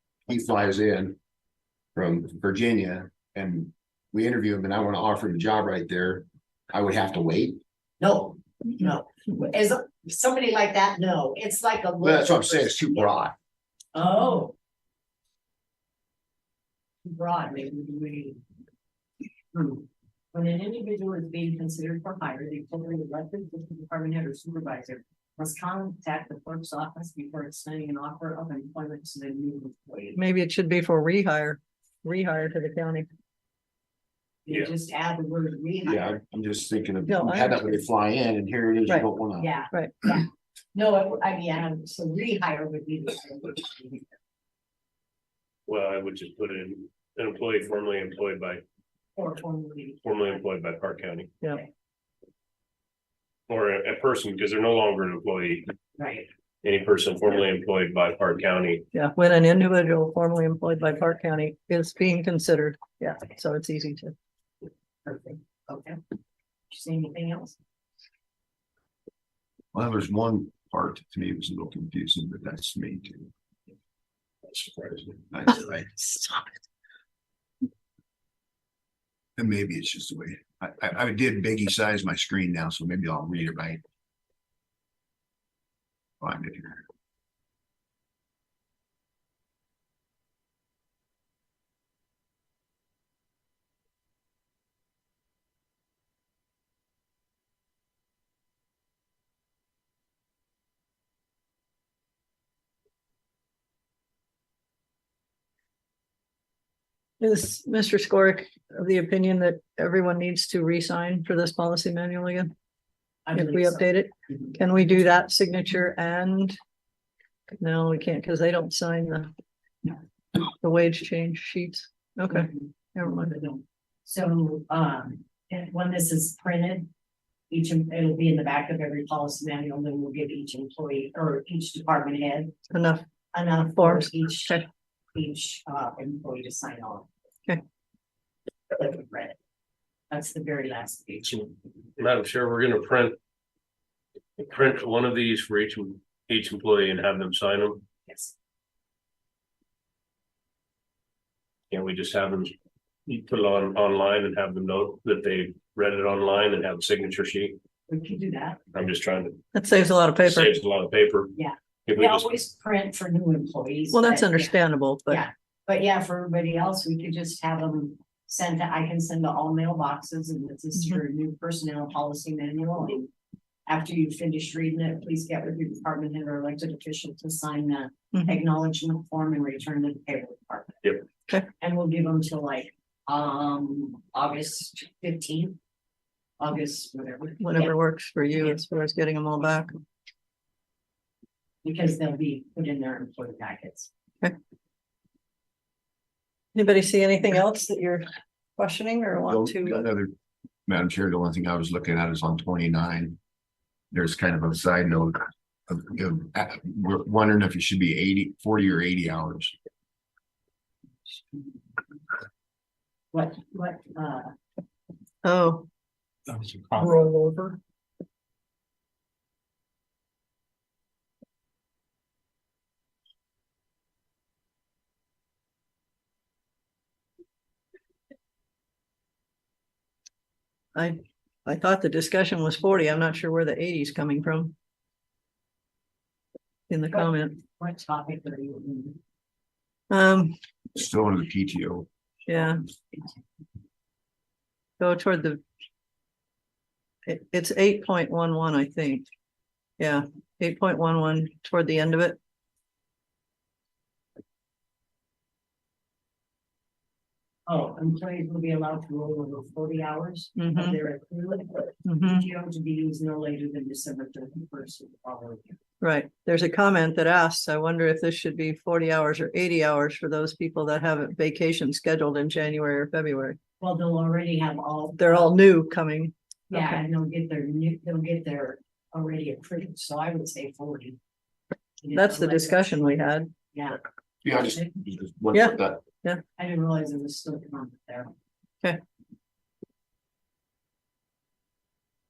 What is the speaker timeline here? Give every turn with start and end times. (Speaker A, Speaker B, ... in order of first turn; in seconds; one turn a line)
Speaker A: 0.3-1.2
Speaker A: 1.9-7.6
Speaker B: 8.0-13.1
Speaker A: 12.0-13.3
Speaker B: 13.9-14.5
Speaker B: 17.0-18.4
Speaker B: 19.5-30.2
Speaker C: 30.1-33.1
Speaker B: 34.5-36.2
Speaker A: 35.8-39.5
Speaker C: 37.1-37.8
Speaker B: 39.4-44.1
Speaker D: 45.7-48.6
Speaker B: 49.1-50.2
Speaker D: 50.0-51.3
Speaker D: 53.5-55.7
Speaker B: 56.0-56.3
Speaker D: 56.6-58.8
Speaker C: 58.9-64.1
Speaker B: 65.0-66.0
Speaker B: 66.7-67.6
Speaker A: 69.7-73.3
Speaker D: 74.5-75.2
Speaker A: 75.3-76.3
Speaker A: 79.4-83.8
Speaker A: 86.2-86.8
Speaker C: 107.2-112.5
Speaker B: 113.2-113.8
Speaker C: 113.3-116.6
Speaker C: 117.6-119.3
Speaker C: 120.6-123.3
Speaker B: 122.3-126.9
Speaker B: 127.5-132.6
Speaker C: 132.7-133.0
Speaker B: 133.3-137.1
Speaker C: 133.8-134.6
Speaker B: 138.7-139.3
Speaker B: 140.1-141.5
Speaker D: 142.0-143.2
Speaker D: 144.4-147.8
Speaker B: 148.1-148.3
Speaker D: 151.7-152.5
Speaker D: 153.1-157.6
Speaker B: 157.9-158.6
Speaker D: 158.7-159.4
Speaker C: 159.5-160.5
Speaker D: 160.2-161.3
Speaker B: 161.3-164.5
Speaker D: 161.8-162.3
Speaker C: 163.9-165.2
Speaker B: 165.1-173.1
Speaker C: 170.8-171.0
Speaker B: 173.7-180.9
Speaker C: 178.1-178.4
Speaker B: 181.6-185.6
Speaker B: 186.4-187.7
Speaker C: 187.4-189.7
Speaker B: 191.6-193.9
Speaker C: 196.5-199.8
Speaker A: 199.3-200.1
Speaker A: 200.7-203.2
Speaker A: 203.9-209.5
Speaker B: 211.1-211.5
Speaker B: 213.1-214.3
Speaker C: 215.2-215.7
Speaker C: 216.7-217.6
Speaker C: 230.7-234.5
Speaker C: 236.7-237.4
Speaker B: 236.9-239.0
Speaker C: 239.9-240.3
Speaker A: 240.7-241.9
Speaker C: 242.3-242.6
Speaker C: 244.8-245.4
Speaker C: 247.1-249.1
Speaker C: 249.8-252.2
Speaker B: 257.5-265.6
Speaker C: 260.4-260.8
Speaker C: 261.9-262.2
Speaker C: 265.8-273.4
Speaker B: 273.6-275.3
Speaker C: 275.0-276.8
Speaker B: 276.5-281.0
Speaker B: 281.8-282.8
Speaker C: 281.9-283.3
Speaker B: 283.5-284.7
Speaker A: 284.2-285.8
Speaker C: 285.3-286.2
Speaker B: 286.4-288.1